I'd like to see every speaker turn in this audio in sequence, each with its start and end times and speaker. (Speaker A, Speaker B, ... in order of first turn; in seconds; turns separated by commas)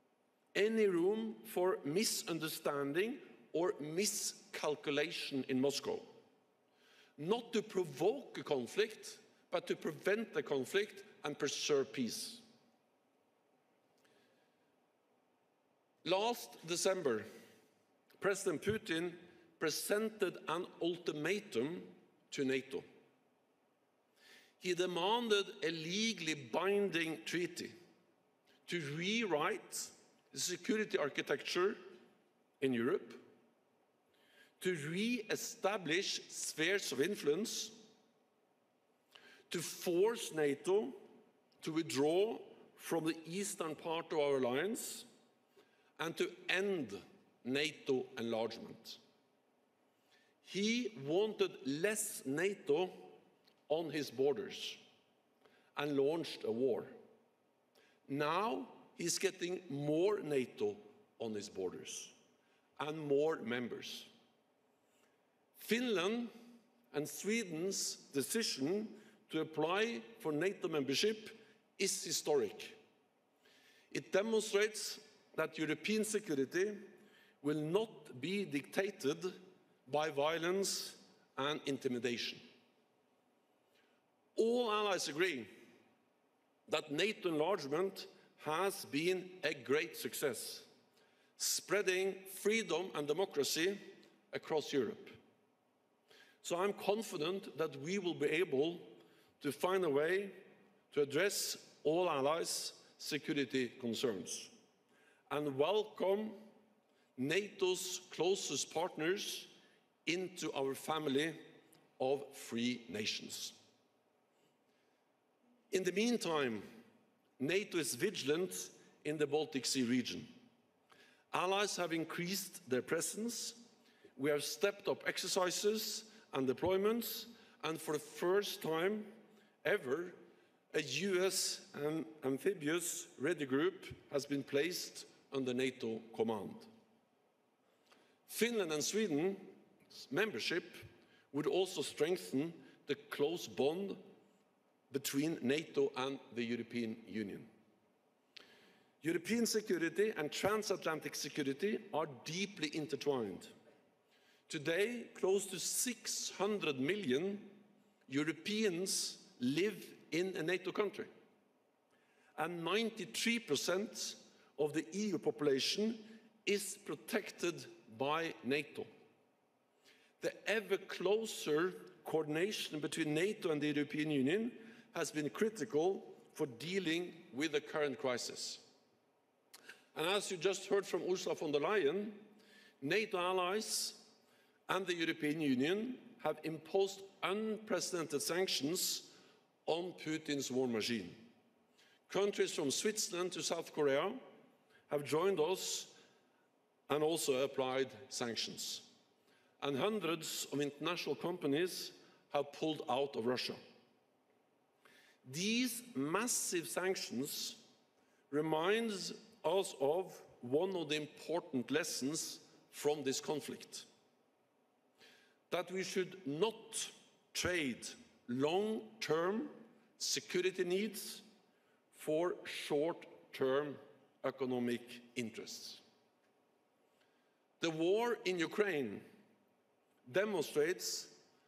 Speaker A: 0.5-6.1, Speaker A: 7.2-12.4, Speaker A: 16.0-17.3, Speaker A: 18.2-22.9, Speaker A: 24.6-27.8, Speaker A: 28.6-31.8, Speaker A: 32.6-33.2, Speaker A: 34.6-37.9, Speaker A: 39.5-41.0, Speaker A: 41.6-45.1, Speaker A: 46.0-49.0, Speaker A: 50.4-53.1, Speaker A: 53.7-54.8, Speaker A: 55.7-56.9, Speaker A: 58.1-62.1, Speaker A: 62.8-64.1, Speaker A: 65.5-66.3, Speaker A: 66.9-72.8, Speaker A: 73.9-76.9, Speaker A: 77.4-82.4, Speaker A: 84.3-85.5, Speaker A: 86.7-90.7, Speaker A: 91.4-95.2, Speaker A: 96.4-100.4, Speaker A: 100.9-104.5, Speaker A: 105.3-106.4, Speaker A: 107.2-109.5, Speaker A: 110.0-111.4, Speaker A: 112.0-113.6, Speaker A: 115.7-116.6, Speaker A: 117.4-120.3, Speaker A: 121.3-130.2, Speaker A: 130.7-136.7, Speaker A: 138.3-144.0, Speaker A: 144.9-147.5, Speaker A: 149.0-153.5, Speaker A: 154.5-161.1, Speaker A: 162.3-168.9, Speaker A: 170.2-178.6, Speaker A: 179.9-182.2, Speaker A: 182.8-184.1, Speaker A: 184.7-189.1, Speaker A: 189.7-191.2, Speaker A: 192.1-194.2, Speaker A: 194.9-195.9, Speaker A: 196.9-198.9, Speaker A: 199.6-203.6, Speaker A: 205.2-207.6, Speaker A: 208.3-213.9, Speaker A: 215.5-221.2, Speaker A: 221.9-225.8, Speaker A: 227.6-229.0, Speaker A: 230.1-231.2